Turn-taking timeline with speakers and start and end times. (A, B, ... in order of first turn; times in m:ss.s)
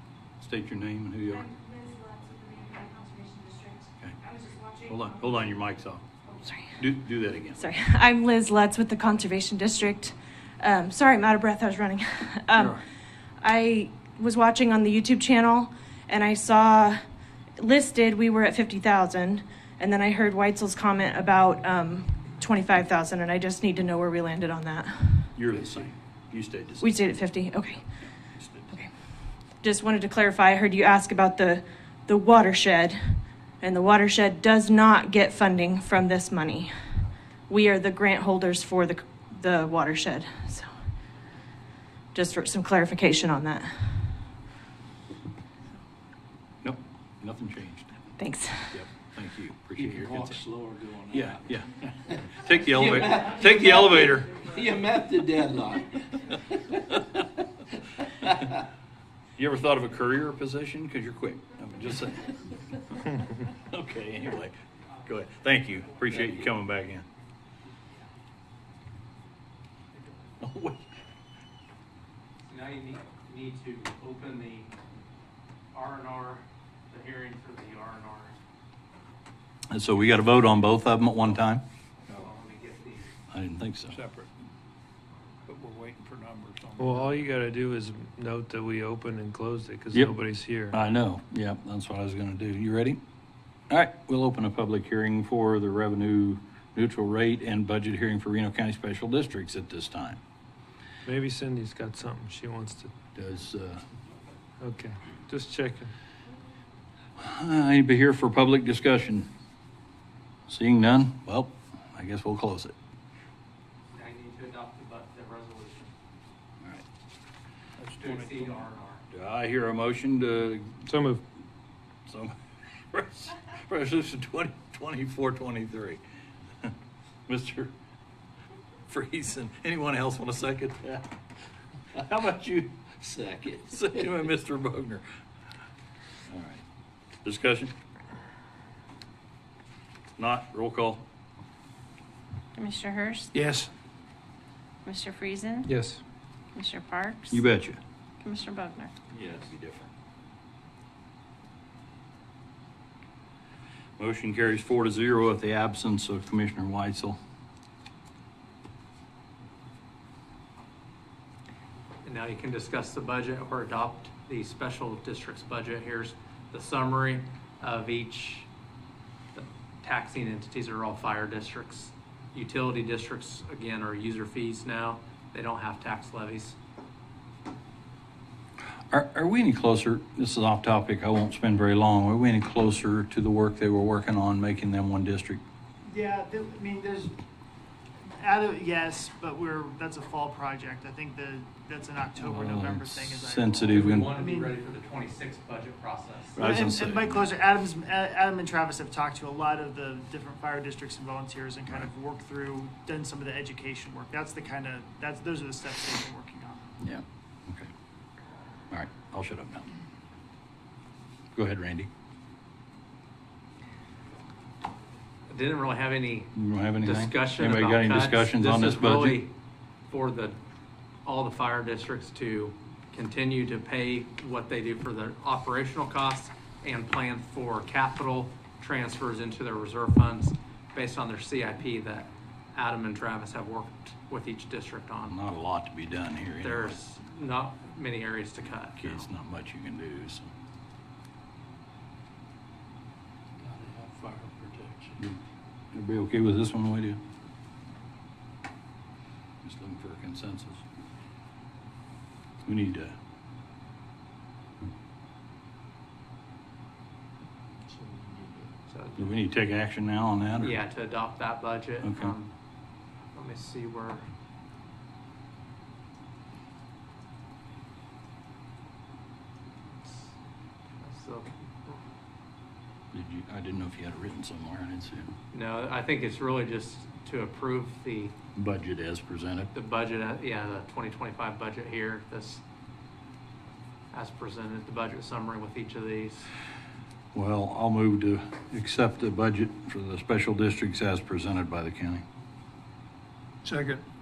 0:00.4-0:01.5 A
0:01.3-0:04.8 B
0:04.8-0:06.0 A
0:06.3-0:06.8 B
0:06.8-0:07.6 A
0:07.6-0:12.8 B
0:12.6-0:12.8 A
0:13.4-0:17.0 B
0:17.6-0:25.3 B
0:25.4-0:26.9 A
0:26.8-0:27.8 B
0:28.3-0:28.7 A
0:29.6-0:36.7 B
0:37.5-0:40.7 B
0:42.1-0:44.0 B
0:46.6-0:48.0 A
0:48.2-0:48.8 B
0:48.7-0:50.4 A
0:49.7-0:51.4 C
0:51.1-0:54.5 A
0:52.8-0:56.2 C
0:59.4-1:02.4 A
1:03.6-1:07.1 A
1:10.4-1:10.9 A
1:12.4-1:14.7 D
1:15.7-1:18.4 D
1:19.7-1:21.6 A
1:22.1-1:23.1 D
1:23.3-1:24.0 A
1:23.9-1:24.3 C
1:25.5-1:27.3 C
1:26.8-1:30.8 E
1:30.7-1:33.0 A
1:33.7-1:40.2 A
1:41.1-1:42.9 E
1:43.2-1:43.8 A
1:44.6-1:45.9 E
1:47.2-1:49.3 A
1:50.5-1:52.7 A
1:53.9-1:55.9 D
1:57.8-1:58.7 C
1:58.0-1:59.0 D
1:59.1-2:00.8 A
2:00.9-2:01.2 E
2:02.1-2:02.3 A
2:02.9-2:06.0 A
2:07.3-2:07.7 A
2:08.9-2:11.1 A
2:11.9-2:13.0 A
2:13.0-2:14.0 C
2:13.6-2:15.0 A
2:16.3-2:16.6 A
2:17.2-2:17.7 A
2:20.2-2:21.0 A
2:22.6-2:23.3 F
2:23.4-2:23.6 E
2:24.9-2:25.7 F
2:25.7-2:26.0 E
2:26.6-2:27.4 F
2:27.3-2:27.8 A
2:28.2-2:28.9 F
2:29.1-2:29.9 A
2:34.0-2:37.2 A
2:42.0-2:48.5 D
2:49.3-2:56.6 D
2:58.9-3:05.4 A
3:05.8-3:07.1 G
3:08.2-3:14.5 G
3:12.2-3:14.1 A
3:13.7-3:16.4 D
3:16.4-3:17.3 A
3:16.4-3:26.6 G
3:26.8-3:27.7 A
3:28.7-3:29.6 A
3:31.4-3:31.9 A
3:35.3-3:36.3 D
3:36.4-3:39.2 A
3:36.8-3:39.3 D
3:39.9-3:40.4 D
3:41.0-3:55.2 D
3:55.1-3:56.8 A
3:56.4-3:59.1 D
3:58.8-4:00.3 A
4:03.4-4:05.0 C
4:05.7-4:07.0 A
4:09.4-4:10.6 A
4:12.4-4:13.0 A
4:17.7-4:18.5 C
4:18.7-4:19.1 D
4:19.0-4:20.6 A
4:20.4-4:22.3 D
4:21.8-4:22.1 A
4:23.2-4:24.1 D
4:29.8-4:30.2 D
4:30.8-4:31.8 D
4:32.9-4:35.1 A
4:35.3-4:38.2 D
4:38.4-4:39.5 A
4:39.5-4:42.4 D
4:43.9-4:46.3 D
4:47.1-4:52.0 A
4:53.4-4:53.8 C